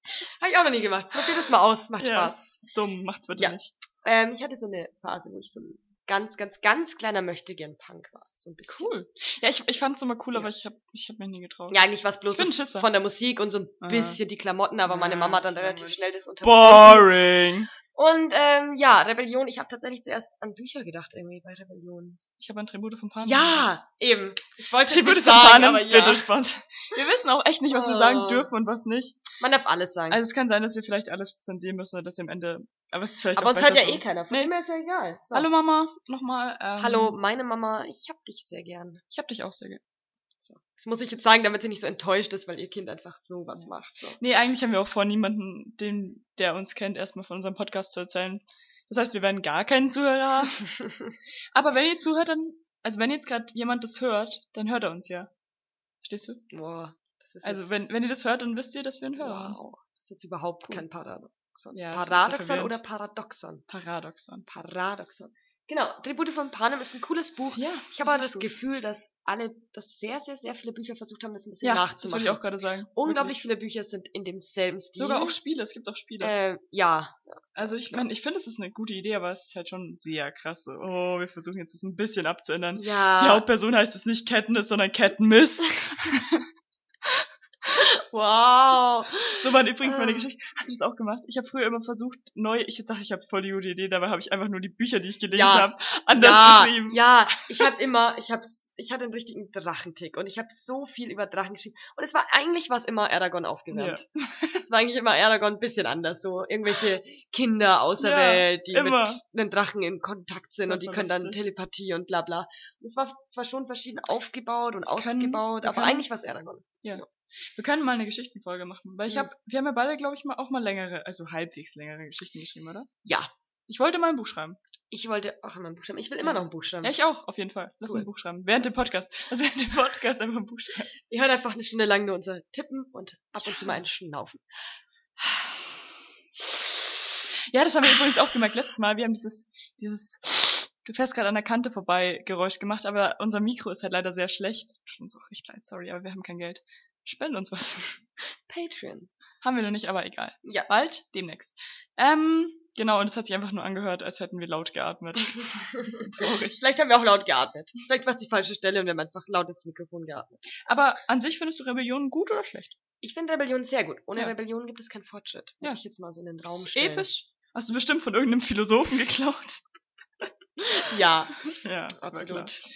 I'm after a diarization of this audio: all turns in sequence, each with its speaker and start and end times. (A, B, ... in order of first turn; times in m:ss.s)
0:00.3-0:02.4 A
0:02.0-0:03.7 B
0:03.4-0:08.9 A
0:08.6-0:11.8 B
0:11.7-0:17.1 A
0:12.3-0:12.9 B
0:13.8-0:14.2 B
0:14.9-0:17.7 B
0:17.9-0:22.2 A
0:22.4-0:23.7 B
0:23.2-0:26.3 A
0:24.9-0:29.2 B
0:27.7-0:28.5 A
0:29.4-0:30.2 A
0:30.1-0:34.5 B
0:33.4-0:35.5 A
0:35.3-0:37.2 B
0:36.8-0:39.0 A
0:39.1-0:39.8 B
0:40.4-0:44.2 A
0:43.5-0:50.7 B
0:50.8-0:51.1 A
0:51.6-0:55.3 B
0:56.0-0:56.4 B
0:56.5-0:57.8 A
0:57.4-0:59.6 B
0:59.2-1:03.6 A
1:01.7-1:02.8 B
1:03.7-1:04.5 B
1:04.5-1:12.4 A
1:07.5-1:08.5 B
1:11.6-1:13.5 B
1:13.0-1:15.4 A
1:15.0-1:16.3 B
1:16.2-1:18.1 A
1:17.6-1:26.5 B
1:22.8-1:23.5 A
1:27.8-1:30.3 A
1:29.3-1:37.7 B
1:35.3-1:44.0 A
1:43.7-1:44.6 B
1:44.6-1:57.0 A
1:48.0-1:49.2 B
1:50.6-1:51.5 B
1:55.0-1:56.1 B
1:56.8-2:02.9 B
2:03.0-2:03.3 A
2:03.7-2:04.6 B
2:04.9-2:07.0 A
2:06.2-2:10.9 B
2:11.1-2:14.5 A
2:13.4-2:13.8 B
2:17.5-2:28.0 B
2:28.4-2:29.1 A
2:29.4-2:36.6 B
2:30.4-2:30.7 A
2:35.6-2:40.4 A
2:40.7-2:42.8 B
2:43.0-2:47.1 A
2:46.4-2:49.6 B
2:50.6-2:52.6 A
2:51.5-2:52.6 B